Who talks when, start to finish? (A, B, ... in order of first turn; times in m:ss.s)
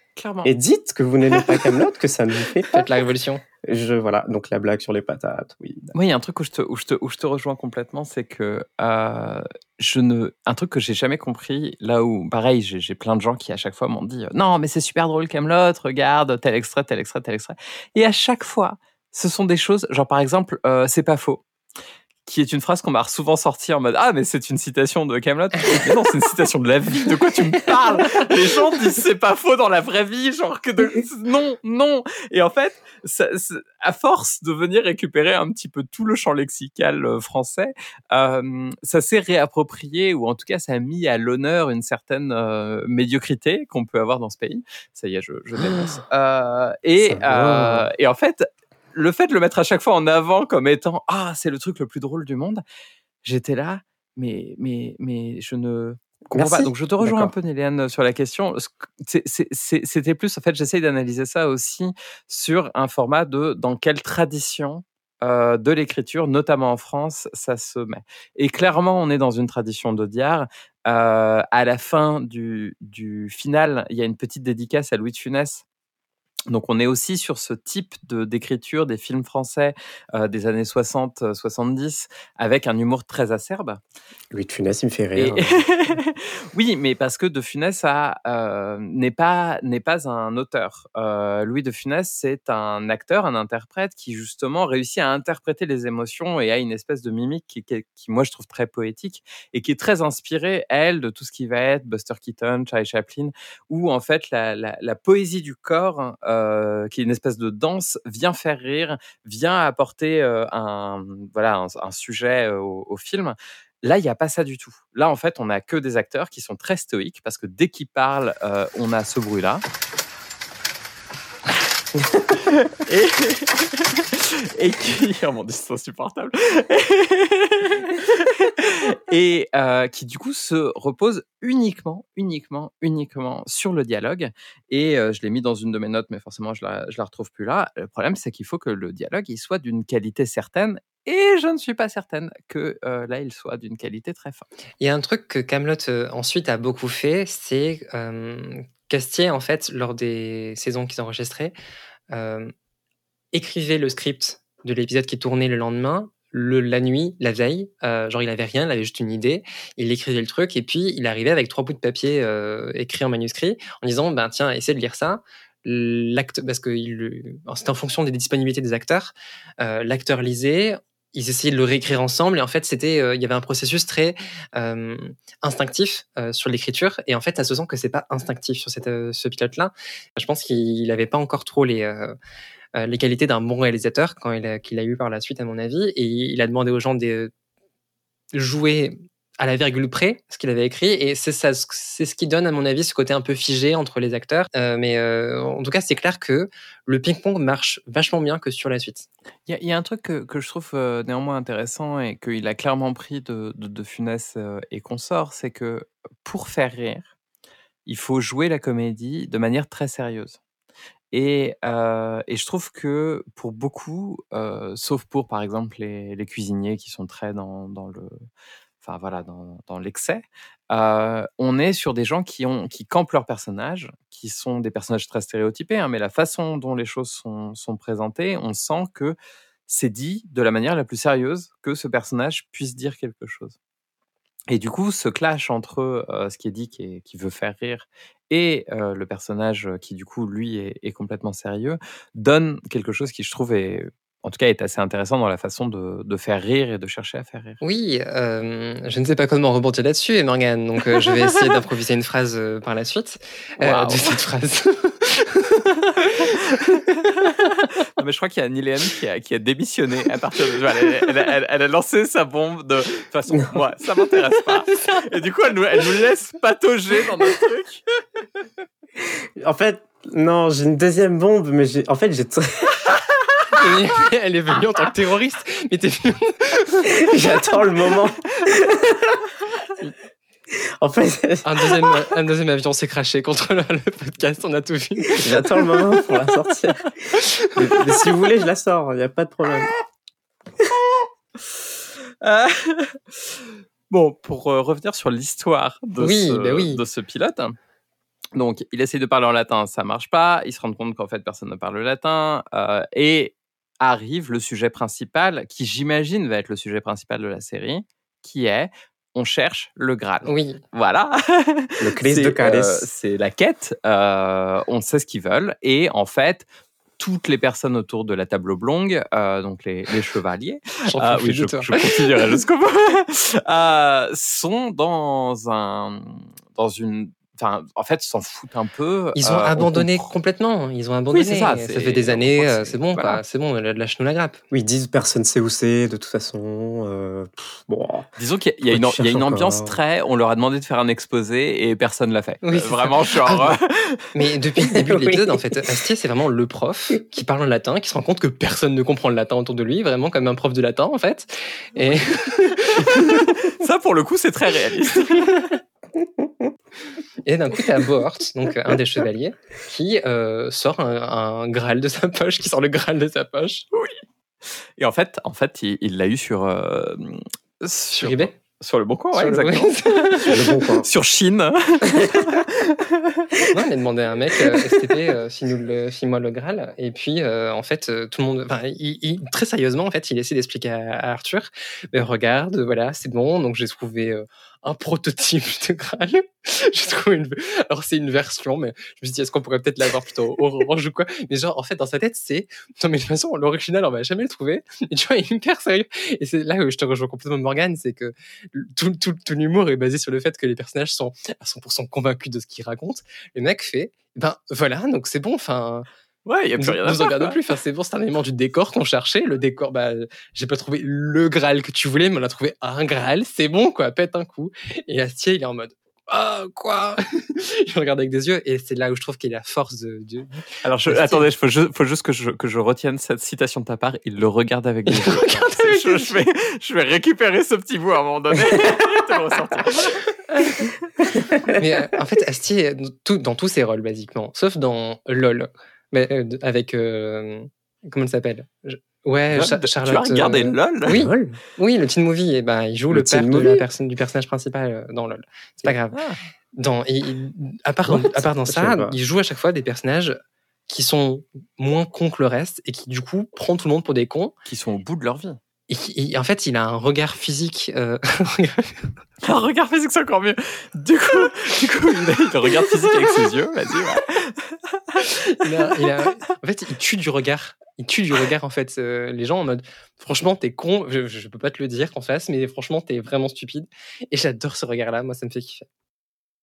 0:00.2-0:00.5 A
0:00.4-0:02.8 B
0:02.7-0:03.4 C
0:03.6-0:05.9 B
0:05.9-0:21.4 A
0:22.3-0:52.6 A
0:47.0-0:47.9 B
0:53.2-1:15.6 A
0:56.4-0:57.3 B
1:16.5-1:23.8 A
1:24.3-1:25.6 B
1:25.2-1:59.6 A
2:02.4-2:24.5 A
2:24.8-2:31.5 C
2:32.1-2:32.5 C
2:33.3-3:02.2 C
3:02.8-3:07.3 C
3:08.3-3:19.1 C
3:19.5-3:27.1 A
3:27.9-3:30.4 A
3:31.1-3:38.2 A
3:38.8-3:49.2 A
3:49.7-3:53.6 A
3:54.5-4:07.6 A
4:07.6-4:17.0 C
4:13.6-4:14.1 A
4:17.3-4:28.0 A
4:24.6-4:25.1 C
4:29.0-4:32.8 B
4:33.6-4:37.0 C
4:36.9-4:39.2 B
4:40.5-4:42.0 B
4:41.4-4:46.0 C
4:45.2-4:46.9 B
4:47.1-4:48.0 C
4:47.6-4:49.7 B
4:52.2-4:57.6 A
4:56.0-4:56.8 C
4:58.4-5:16.4 A
5:10.2-5:10.6 C
5:11.8-5:12.9 B
5:17.0-5:30.1 A
5:20.9-5:22.2 C
5:29.2-5:34.4 C
5:31.1-5:33.2 A
5:34.5-5:38.1 B
5:38.2-5:44.1 A
5:38.7-5:39.8 B
5:42.4-5:43.6 C
5:44.1-5:53.3 C
5:44.6-5:45.8 B
5:52.9-5:55.3 A
5:57.3-6:03.7 C
6:04.8-6:10.3 A
6:08.0-6:08.3 C
6:09.1-6:10.5 C
6:10.3-6:10.9 B
6:10.8-6:13.3 A
6:13.5-6:45.9 C
6:46.3-6:47.4 A
6:46.6-7:01.3 C
7:00.6-7:10.0 A
7:04.9-7:06.2 C
7:10.3-7:10.6 C
7:11.2-7:11.5 B
7:11.5-7:26.0 C
7:19.3-7:21.0 A
7:20.9-7:21.4 B
7:22.9-7:23.6 B
7:25.9-7:26.2 A
7:26.6-7:30.2 C
7:27.8-7:29.0 B
7:30.7-7:34.3 C
7:34.5-7:35.4 A
7:35.7-7:38.9 C
7:39.2-7:45.0 A
7:45.1-7:55.7 C